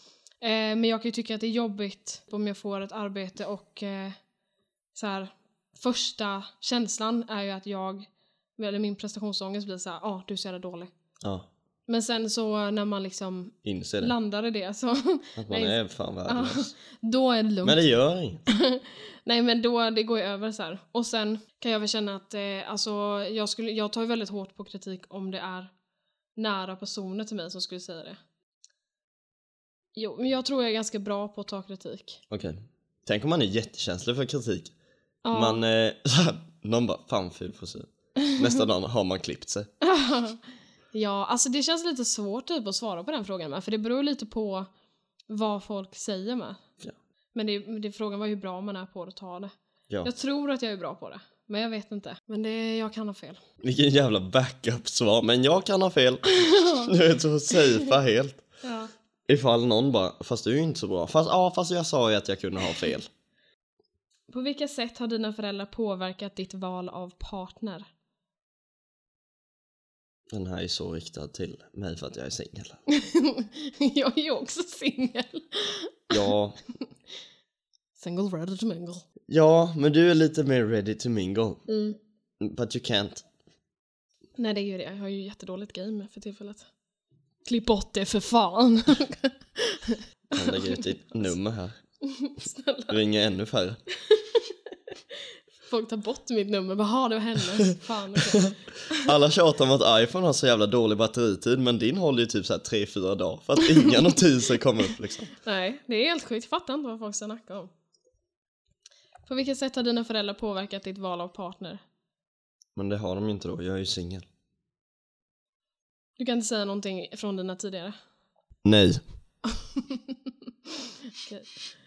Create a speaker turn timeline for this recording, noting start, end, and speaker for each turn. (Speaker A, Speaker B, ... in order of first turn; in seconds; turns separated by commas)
Speaker A: 0.4-4.2, Speaker A: 5.0-10.9, Speaker B: 11.2-11.5, Speaker A: 11.9-17.8, Speaker B: 13.6-14.1, Speaker B: 15.4-16.7, Speaker B: 17.6-18.4, Speaker A: 18.5-25.7, Speaker A: 26.4-28.2, Speaker A: 30.0-32.2, Speaker B: 32.3-34.7, Speaker A: 35.2-35.6, Speaker B: 35.3-39.7, Speaker A: 39.8-40.4, Speaker A: 40.9-44.7, Speaker A: 45.3-46.6, Speaker A: 47.3-53.4, Speaker B: 53.6-58.4, Speaker A: 56.3-56.9, Speaker A: 57.5-57.9, Speaker A: 58.6-58.9, Speaker B: 59.3-63.1, Speaker A: 64.3-67.9, Speaker B: 70.3-72.8, Speaker A: 72.9-76.3, Speaker B: 76.1-76.6, Speaker A: 78.0-79.1, Speaker B: 79.3-81.6, Speaker A: 81.7-82.0, Speaker B: 82.4-83.2, Speaker A: 84.4-86.7, Speaker A: 87.5-90.9, Speaker B: 90.3-91.8, Speaker A: 92.0-93.0, Speaker B: 92.9-93.8, Speaker A: 94.0-99.1, Speaker B: 98.2-105.3, Speaker A: 103.6-104.1, Speaker A: 105.4-107.7, Speaker A: 109.3-111.8, Speaker B: 112.8-114.3, Speaker A: 116.2-118.0, Speaker B: 118.7-119.0, Speaker A: 119.5-121.6